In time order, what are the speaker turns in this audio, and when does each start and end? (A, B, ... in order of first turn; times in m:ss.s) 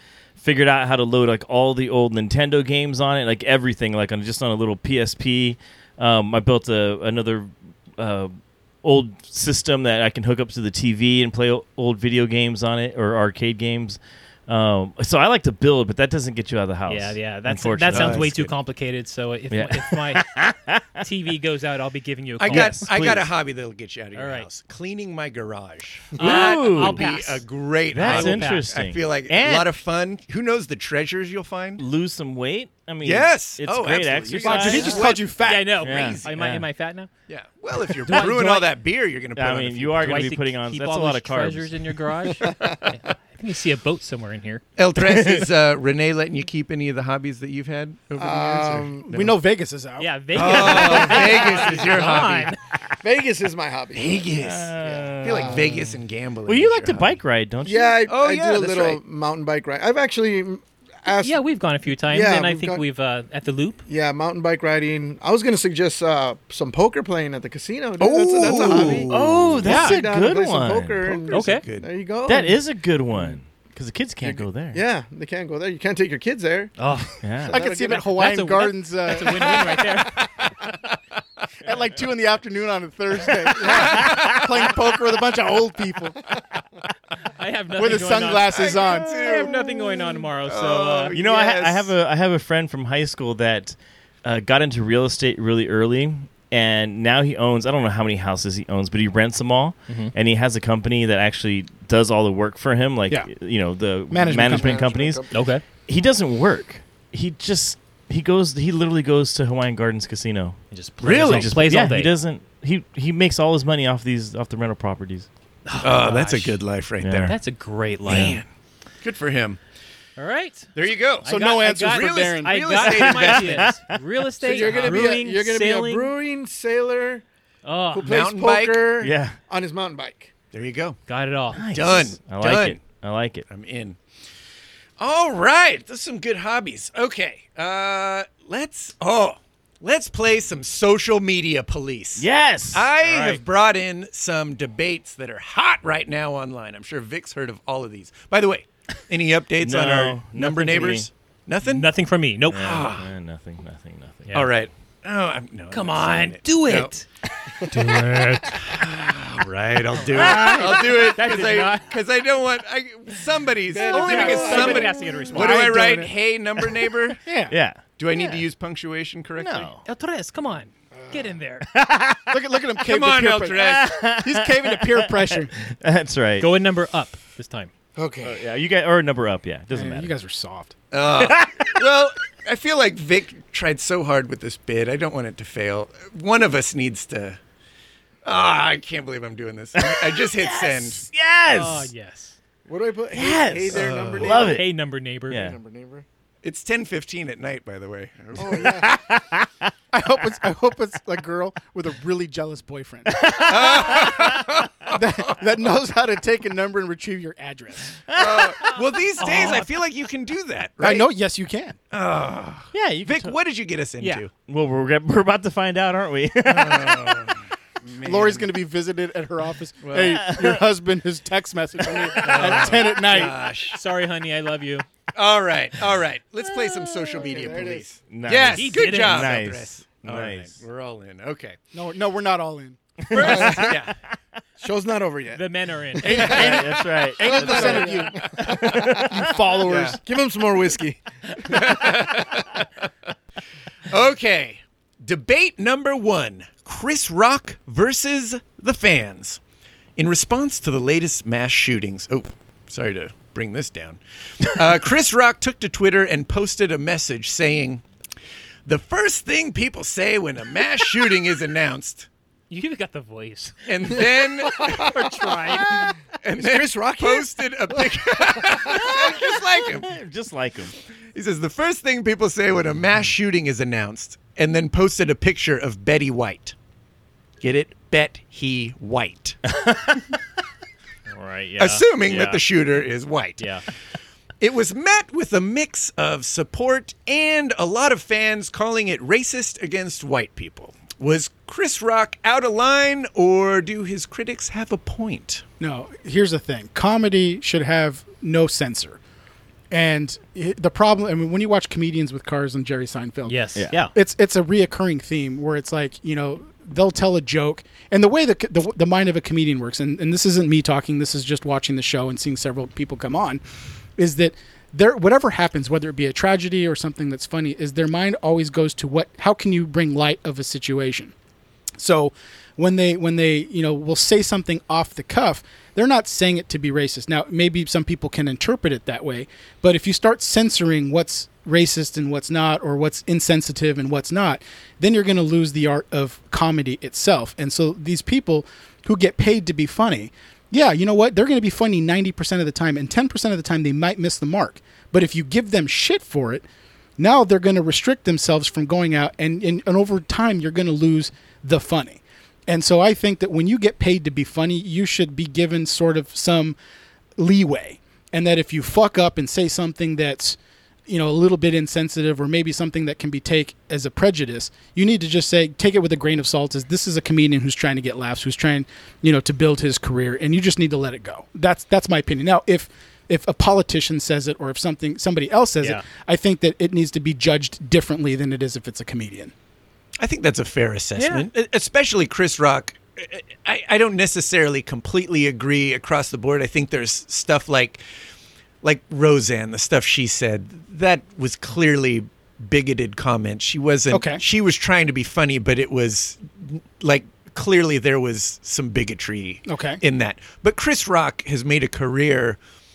0:00.4-0:18.5 A
0:16.9-0:20.3 B
0:17.9-0:18.3 C
0:19.5-0:21.0 A
0:21.0-0:22.9 B
0:22.4-0:31.8 C
0:22.5-0:23.3 A
0:24.1-0:24.5 B
0:26.2-0:28.7 B
0:26.2-0:27.1 A
0:28.0-0:29.0 A
0:29.3-0:29.7 B
0:31.8-0:35.1 A
0:33.0-0:36.3 C
0:34.4-0:35.7 D
0:34.9-0:37.1 B
0:35.8-0:36.6 A
0:37.3-0:40.3 C
0:38.0-0:38.7 B
0:39.4-0:41.7 A
0:40.0-0:44.6 B
0:42.4-0:42.8 E
0:44.8-0:49.3 C
0:45.0-0:45.5 A
0:48.2-0:49.2 E
0:49.1-0:51.0 D
0:50.0-0:52.6 B
0:50.3-0:52.5 C
0:53.0-0:54.3 E
0:53.9-0:57.1 C
0:54.4-0:55.7 A
0:54.8-0:55.7 E
0:56.5-0:58.0 A
0:57.6-1:01.4 E
0:58.1-0:59.0 C
1:01.2-1:03.8 B
1:02.1-1:02.8 E
1:03.9-1:12.6 E
1:08.1-1:09.3 C
1:08.1-1:11.2 A
1:08.5-1:09.0 B
1:09.6-1:10.0 B
1:11.2-1:11.9 C
1:11.3-1:11.6 B
1:12.2-1:14.8 A
1:14.2-1:16.7 E
1:16.8-1:20.2 B
1:17.1-1:17.6 A
1:17.5-1:18.2 E
1:17.5-1:19.9 D
1:21.6-1:26.3 D
1:23.5-1:24.2 C
1:23.8-1:24.4 A
1:23.9-1:24.4 E
1:27.3-1:31.1 B
1:27.8-1:29.2 D
1:28.2-1:29.6 C
1:30.3-1:31.9 C
1:31.1-1:45.2 A
1:44.1-1:44.9 D
1:44.6-1:45.4 E
1:45.3-1:45.6 B
1:45.8-1:55.3 A
1:50.7-1:52.1 B
1:51.0-1:51.5 C
1:55.6-1:56.6 B
1:55.8-1:57.4 C
1:57.0-1:57.4 A
1:57.2-1:58.4 B
1:58.0-1:58.5 C
1:58.1-1:58.3 A
1:59.0-1:59.6 C
2:00.2-2:06.1 B
2:00.7-2:03.7 C
2:01.2-2:02.6 D
2:02.7-2:04.0 A
2:04.4-2:07.2 E
2:04.5-2:05.1 C
2:07.6-2:08.1 B
2:07.9-2:10.3 E
2:08.0-2:09.0 C
2:09.0-2:09.4 A
2:10.5-2:11.0 C
2:11.1-2:11.6 B
2:11.5-2:13.4 A
2:11.6-2:12.8 C
2:13.5-2:14.0 C
2:15.0-2:31.9 C
2:22.2-2:22.9 A
2:23.0-2:23.4 B
2:29.6-2:31.1 A
2:31.6-2:32.8 B
2:32.5-2:34.5 A
2:32.5-2:33.1 C
2:34.3-2:36.9 C
2:35.7-2:38.5 B
2:37.7-2:38.4 A
2:38.4-2:47.2 C
2:39.9-2:41.8 B
2:40.3-2:40.7 A
2:43.7-2:44.9 E
2:43.8-2:45.8 B
2:44.1-2:46.1 D
2:47.2-2:47.5 D
2:47.5-2:47.8 A
2:48.0-2:49.7 C
2:49.4-2:49.8 A
2:49.8-2:51.7 B
2:50.9-2:51.3 E
2:51.6-2:52.4 A
2:52.3-2:55.5 D
2:52.8-2:54.0 C
2:53.5-2:56.5 A
2:56.4-2:57.7 B
2:58.0-2:58.4 E
2:58.2-3:00.1 A
2:59.7-3:00.8 D
3:00.9-3:07.4 C
3:08.2-3:11.1 C
3:09.8-3:11.9 A
3:11.5-3:12.4 B
3:12.7-3:14.6 E
3:13.1-3:14.7 A
3:13.7-3:14.4 C
3:14.2-3:15.5 B
3:15.3-3:15.6 A
3:15.3-3:16.0 E
3:16.4-3:19.0 C
3:18.4-3:18.9 E
3:18.8-3:19.7 A
3:19.9-3:23.3 D
3:23.1-3:24.4 A
3:23.3-3:25.6 C
3:24.9-3:28.0 D
3:28.1-3:28.6 A
3:28.1-3:31.1 C
3:29.2-3:29.7 B
3:30.8-3:31.8 D
3:31.9-3:34.3 C
3:32.7-3:33.4 A
3:34.0-3:34.2 B
3:34.5-3:37.4 A
3:36.4-3:38.5 C
3:38.0-3:43.4 D
3:39.8-3:40.2 C
3:40.0-3:40.6 A
3:42.1-3:42.6 A
3:42.1-3:43.8 C
3:43.1-3:44.8 B
3:45.1-3:51.6 C
3:47.1-3:48.0 E
3:48.1-3:50.6 A
3:48.5-3:49.3 B
3:51.7-3:53.3 D
3:53.0-3:53.9 A
3:53.1-3:53.7 B
3:53.2-3:53.7 E
3:53.2-3:53.9 C
3:54.6-3:55.4 E
3:55.3-3:56.6 B
3:56.0-3:59.1 E
3:56.0-4:00.0 D
3:56.0-3:59.4 A
3:59.6-4:00.0 C
3:59.9-4:01.9 E
4:01.4-4:02.8 C
4:03.9-4:09.4 C
4:10.0-4:17.8 C
4:18.6-4:22.1 C
4:22.5-4:25.9 B
4:23.6-4:25.0 C
4:24.6-4:25.0 E
4:25.5-4:30.0 C
4:26.3-4:27.3 E
4:29.7-4:30.7 A
4:31.1-4:36.5 C
4:37.4-4:39.4 C
4:39.6-4:40.0 A
4:41.1-4:42.3 B
4:41.6-4:43.5 C
4:42.1-4:42.4 A
4:44.4-4:55.4 C
4:55.6-4:59.0 D
4:59.7-5:13.4 D
5:03.2-5:03.9 B
5:14.0-5:21.1 D
5:21.8-5:46.4 D
5:47.0-5:56.6 D
5:57.2-6:19.3 D
6:20.0-6:27.8 C
6:21.0-6:21.3 B
6:28.6-6:42.4 C
6:33.9-6:34.2 D
6:39.5-6:39.8 D